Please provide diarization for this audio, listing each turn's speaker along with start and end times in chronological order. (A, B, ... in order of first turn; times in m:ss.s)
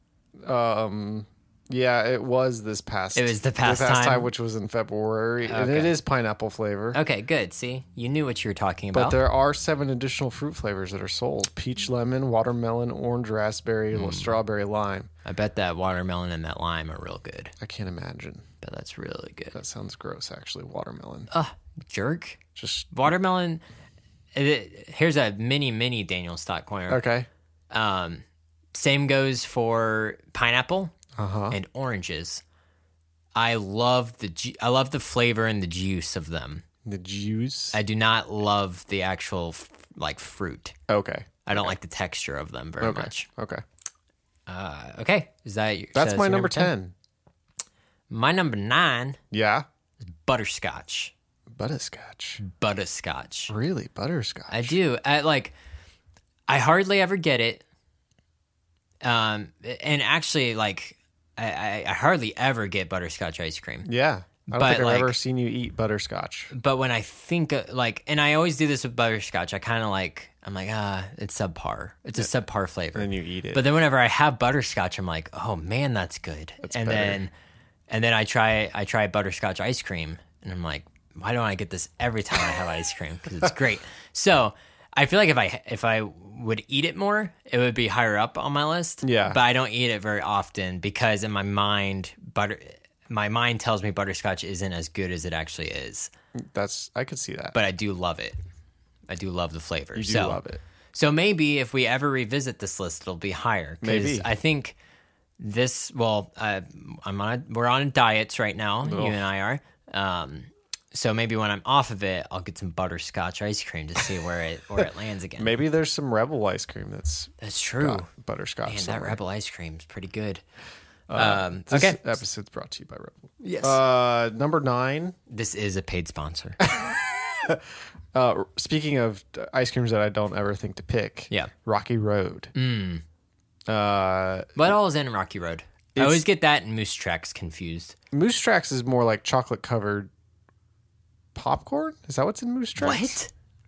0:00.4-0:07.0 A
0:03.1-0:04.3 B
0:05.4-0:05.9 B
0:06.9-0:09.2 B
0:08.9-0:15.1 A
0:13.9-0:14.3 B
0:15.2-0:17.5 B
0:17.6-0:18.4 A
0:18.6-0:19.6 B
0:19.5-0:21.3 A
0:21.3-0:23.6 B
0:22.6-0:22.9 A
0:24.3-0:27.0 B
0:26.9-0:27.3 A
0:27.7-0:30.9 B
0:31.2-0:31.6 A
0:31.5-0:32.4 B
0:33.4-0:36.6 B
0:36.8-0:37.8 A
0:37.7-0:40.7 B
0:40.9-0:41.8 A
0:41.4-0:43.3 B
0:42.8-0:43.6 A
0:44.5-0:46.7 B
0:45.9-0:46.9 A
0:48.1-0:49.2 B
0:49.3-0:49.6 A
0:50.0-0:51.1 B
0:51.5-0:52.4 A
0:52.4-0:53.5 B
0:53.5-0:54.8 A
0:54.5-0:55.5 B
0:56.5-0:57.6 B
0:59.0-1:03.9 B
1:03.8-1:06.5 A
1:04.5-1:05.1 B
1:06.5-1:17.3 B
1:12.9-1:13.6 A
1:16.6-1:17.2 A
1:17.9-1:36.1 B
1:29.0-1:29.4 A
1:36.4-1:37.6 A
1:37.5-1:38.4 B
1:39.1-1:40.4 B
1:39.9-1:40.6 A
1:40.9-1:44.8 B
1:43.8-1:44.3 A
1:45.4-1:55.5 B
1:48.8-1:49.3 A
1:55.4-1:59.2 A
1:57.4-1:58.1 B
1:58.6-2:00.4 B
2:01.1-2:05.2 A
2:01.1-2:02.2 B
2:03.4-2:03.8 B
2:05.3-2:06.6 B
2:06.6-2:12.5 A
2:12.5-2:13.0 B
2:13.7-2:14.7 A
2:14.6-2:17.9 B
2:15.9-2:16.2 A
2:18.1-2:20.1 A
2:21.3-2:23.2 A
2:22.8-2:23.3 B